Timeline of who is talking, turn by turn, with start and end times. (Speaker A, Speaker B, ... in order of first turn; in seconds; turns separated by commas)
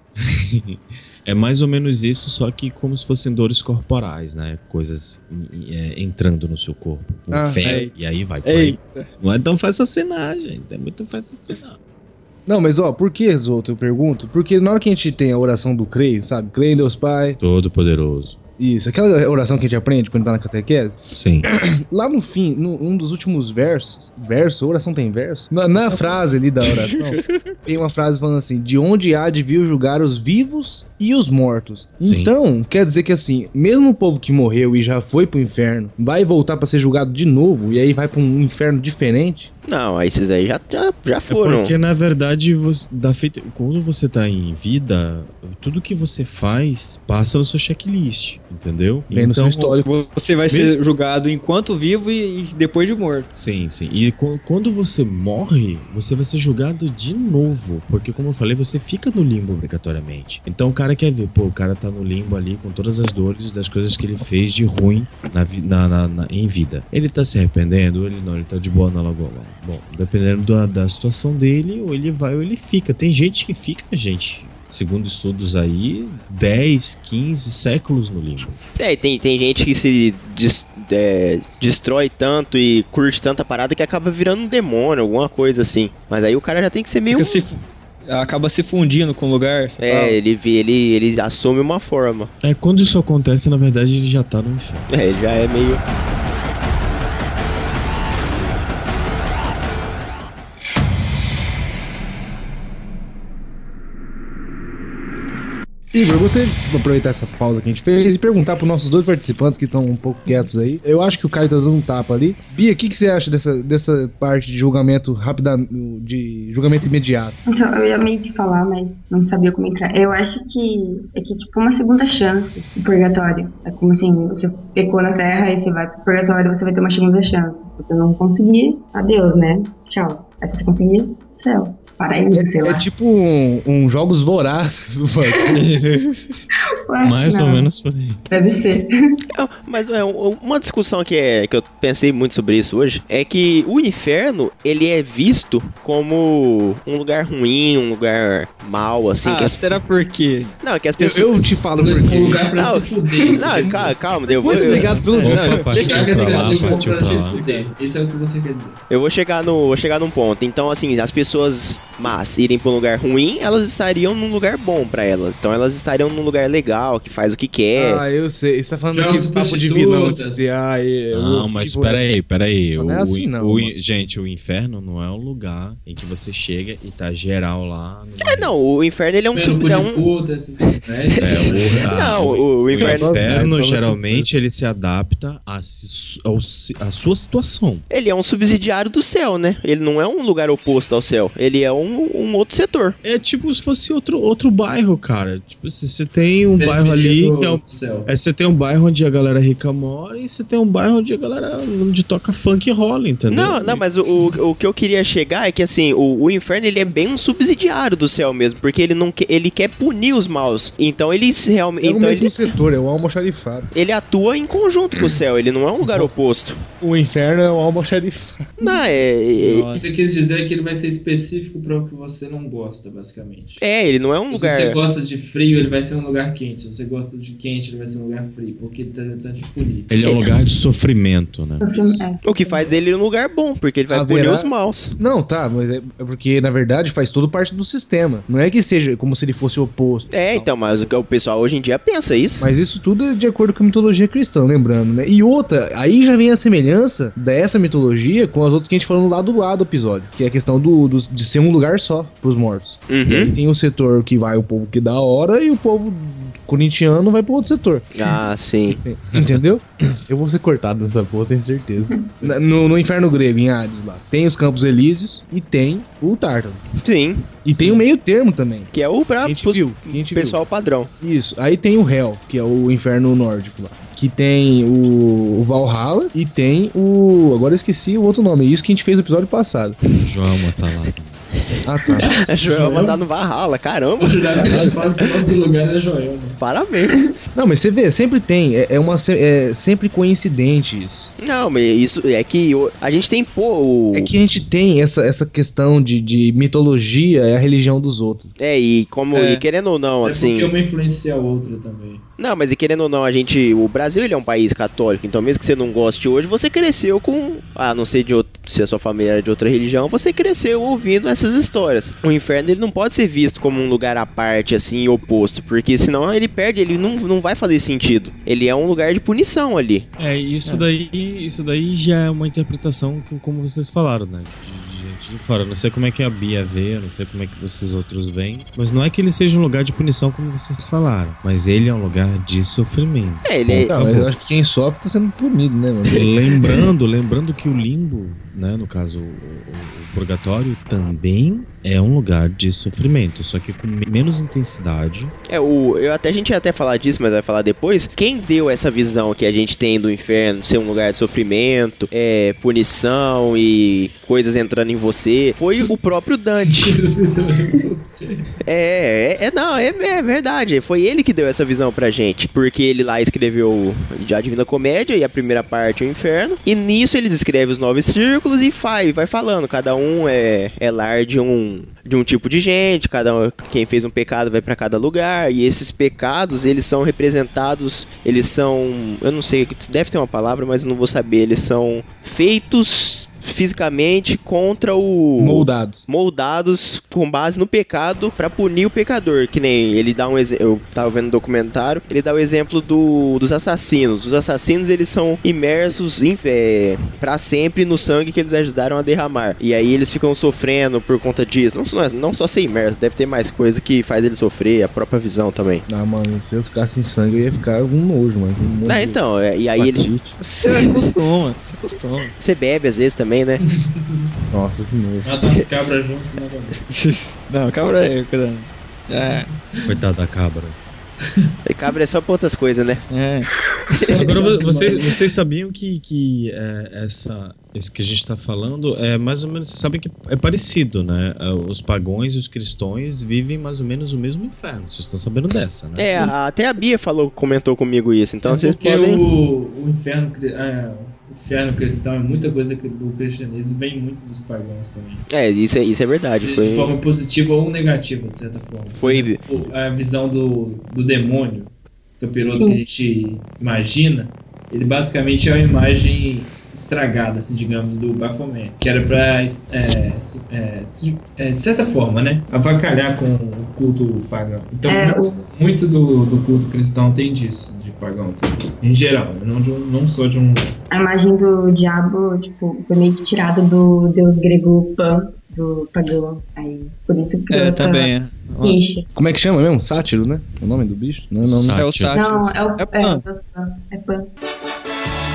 Speaker A: 0.2-11.8, Speaker B: 7.3-7.6, Speaker C: 7.6-7.9, Speaker C: 8.4-9.1, Speaker B: 12.4-17.4, Speaker A: 16.7-18.4, Speaker B: 18.6-39.5, Speaker A: 21.1-21.5, Speaker C: 26.6-27.3, Speaker A: 32.0-32.3, Speaker D: 39.6-41.7, Speaker A: 41.3-49.8, Speaker B: 49.1-49.8, Speaker C: 49.8-53.3, Speaker A: 53.3-78.6, Speaker D: 78.8-87.4, Speaker C: 87.1-90.2, Speaker D: 89.8-92.3, Speaker A: 92.4-94.9, Speaker D: 94.9-95.8, Speaker B: 105.9-117.4, Speaker E: 117.5-132.8, Speaker B: 132.3-135.6, Speaker C: 135.5-136.3, Speaker E: 136.8-137.7, Speaker A: 137.0-138.2, Speaker E: 138.3-138.9, Speaker D: 139.3-149.7, Speaker C: 149.2-150.6, Speaker D: 150.6-151.4, Speaker B: 151.0-152.6, Speaker F: 151.8-153.9, Speaker D: 152.6-155.0, Speaker C: 154.3-156.8, Speaker B: 154.4-155.7, Speaker A: 155.2-157.4, Speaker F: 155.7-158.8, Speaker C: 157.4-157.7, Speaker D: 158.9-168.0, Speaker B: 167.7-172.0, Speaker F: 168.9-170.6, Speaker A: 171.1-178.5, Speaker B: 172.8-173.7, Speaker D: 178.2-180.1, Speaker F: 179.3-181.9, Speaker A: 181.2-187.8, Speaker D: 181.9-183.3, Speaker B: 182.7-184.3, Speaker D: 187.9-193.0, Speaker A: 193.0-203.8, Speaker F: 196.6-198.1, Speaker D: 203.3-212.5, Speaker B: 211.8-213.7, Speaker D: 213.7-216.6, Speaker B: 215.8-216.1, Speaker B: 216.8-218.6, Speaker D: 218.6-219.8, Speaker C: 219.3-219.8, Speaker F: 219.8-223.6, Speaker D: 223.6-224.8, Speaker F: 224.3-229.9, Speaker A: 229.9-231.6, Speaker D: 230.0-230.5, Speaker E: 231.6-232.8, Speaker D: 232.2-235.0, Speaker B: 233.9-240.5, Speaker D: 240.1-242.5, Speaker B: 242.4-258.2, Speaker D: 252.9-253.3, Speaker D: 257.9-258.8, Speaker B: 258.7-266.6, Speaker A: 259.1-259.4, Speaker E: 261.9-262.1, Speaker D: 266.8-267.4, Speaker B: 267.4-270.4, Speaker D: 268.7-270.9, Speaker B: 271.0-279.8, Speaker A: 280.0-281.2, Speaker B: 281.6-282.9, Speaker D: 281.9-284.7, Speaker F: 282.0-282.9, Speaker F: 284.0-286.4, Speaker B: 284.4-284.7, Speaker D: 286.4-287.1, Speaker B: 287.3-291.1, Speaker D: 291.2-294.1, Speaker B: 293.9-298.3, Speaker D: 298.4-300.5, Speaker C: 299.1-299.4, Speaker F: 300.0-302.0, Speaker D: 302.2-319.9, Speaker A: 320.0-334.1, Speaker D: 333.2-333.7, Speaker B: 333.5-336.4, Speaker A: 335.9-345.1, Speaker D: 345.3-356.8, Speaker F: 356.4-358.3, Speaker D: 358.4-405.6, Speaker B: 385.2-385.8, Speaker B: 405.7-409.0, Speaker D: 408.6-409.9, Speaker B: 409.6-410.1, Speaker C: 410.2-412.1, Speaker D: 412.2-413.4, Speaker F: 413.5-414.1, Speaker B: 414.3-415.1, Speaker F: 415.0-416.6, Speaker C: 416.7-419.3, Speaker A: 419.6-420.6, Speaker D: 421.4-422.8, Speaker C: 422.9-423.3, Speaker F: 423.9-424.9, Speaker A: 423.9-435.9, Speaker D: 435.8-439.0, Speaker F: 438.2-445.0, Speaker D: 445.1-446.7, Speaker F: 446.2-470.6, Speaker D: 448.8-449.2, Speaker E: 452.4-452.6, Speaker E: 464.7-465.2, Speaker E: 470.7-478.9, Speaker C: 477.3-478.6, Speaker B: 478.9-481.7, Speaker A: 481.2-482.0, Speaker C: 481.5-483.0, Speaker E: 481.9-484.1